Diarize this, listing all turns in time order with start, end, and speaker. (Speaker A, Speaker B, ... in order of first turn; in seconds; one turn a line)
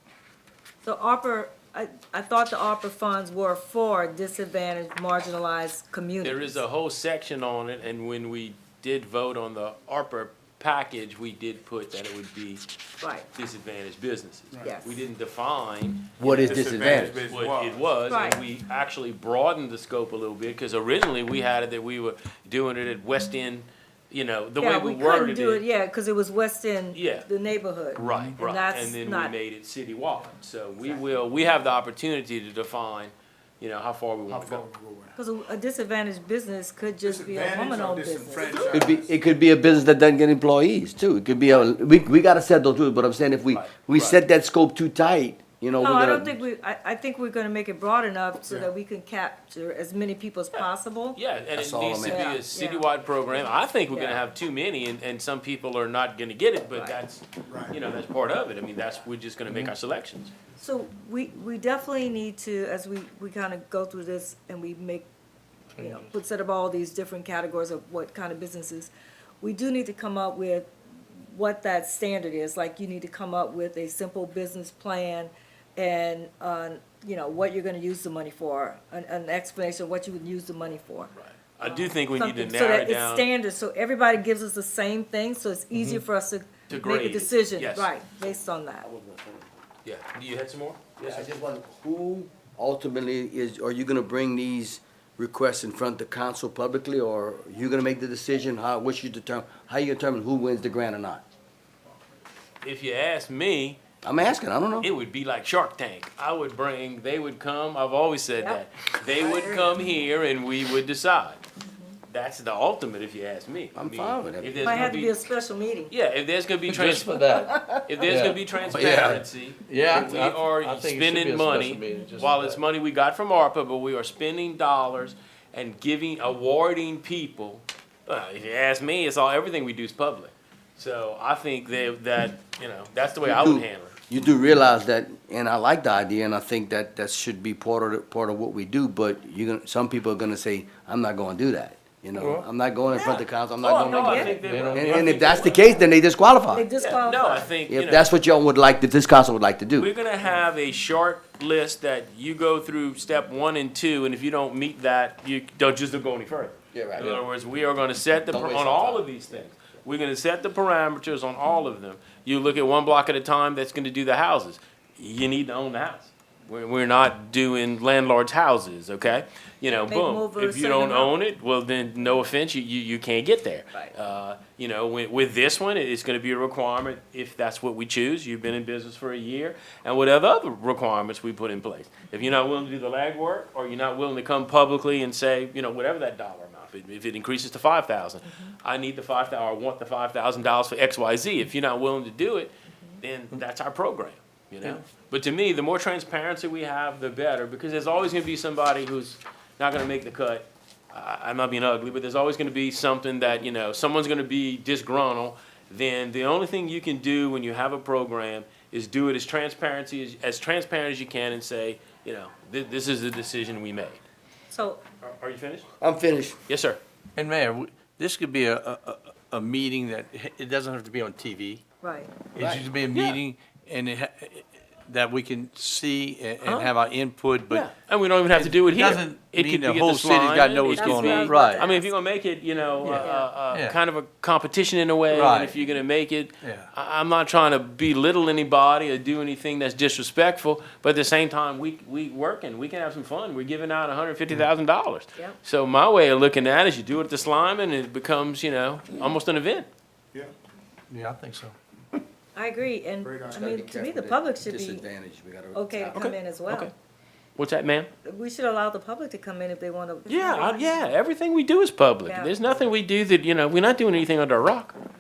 Speaker A: 0.8-6.6
Speaker B: 6.2-12.6
Speaker B: 13.3-25.6
Speaker A: 14.6-15.0
Speaker C: 16.2-17.2
Speaker D: 16.2-18.0
Speaker A: 18.1-18.4
Speaker A: 24.6-29.4
Speaker B: 26.9-27.3
Speaker B: 28.0-34.6
Speaker E: 28.0-28.4
Speaker D: 34.3-35.2
Speaker A: 35.2-38.8
Speaker D: 37.0-39.1
Speaker C: 38.7-46.4
Speaker B: 43.5-44.2
Speaker A: 45.8-51.2
Speaker B: 50.5-60.3
Speaker C: 51.5-52.3
Speaker A: 52.0-52.9
Speaker A: 53.9-54.2
Speaker A: 56.7-57.0
Speaker D: 57.5-57.8
Speaker A: 60.6-65.1
Speaker E: 65.7-66.1
Speaker A: 65.8-70.7
Speaker A: 71.3-81.1
Speaker B: 81.2-83.3
Speaker A: 81.6-88.9
Speaker B: 86.7-87.9
Speaker C: 88.3-89.6
Speaker B: 89.8-91.3
Speaker C: 91.0-101.2
Speaker B: 102.6-103.8
Speaker C: 104.0-104.9
Speaker B: 104.8-111.4
Speaker A: 108.4-109.8
Speaker A: 111.6-112.0
Speaker B: 112.1-115.2
Speaker C: 113.8-114.9
Speaker A: 114.6-115.9
Speaker B: 115.9-133.9
Speaker E: 116.7-122.6
Speaker C: 117.4-117.8
Speaker C: 133.2-146.7
Speaker E: 142.2-142.4
Speaker B: 142.9-145.8
Speaker A: 143.8-144.4
Speaker E: 144.4-145.2
Speaker A: 146.5-147.5
Speaker B: 146.8-148.1
Speaker C: 147.7-149.9
Speaker B: 149.8-214.0
Speaker C: 156.7-157.2
Speaker C: 158.3-159.1
Speaker A: 169.9-171.2
Speaker A: 188.3-188.5
Speaker A: 192.7-193.0
Speaker A: 214.5-214.8
Speaker B: 215.0-215.7
Speaker C: 215.8-216.4
Speaker B: 216.5-216.8
Speaker E: 217.2-221.6
Speaker A: 221.8-222.2
Speaker E: 222.3-227.7
Speaker C: 222.4-222.7
Speaker B: 226.4-226.7
Speaker B: 227.5-249.7
Speaker E: 228.3-231.7
Speaker A: 230.8-231.9
Speaker E: 232.8-233.8
Speaker A: 232.9-233.3
Speaker E: 235.1-235.6
Speaker E: 236.4-236.7
Speaker E: 250.9-251.6
Speaker A: 252.3-254.8
Speaker D: 253.0-253.4
Speaker C: 253.3-256.2
Speaker A: 255.5-256.7
Speaker B: 257.4-257.9
Speaker A: 258.1-260.9
Speaker B: 260.1-264.8
Speaker A: 262.1-262.5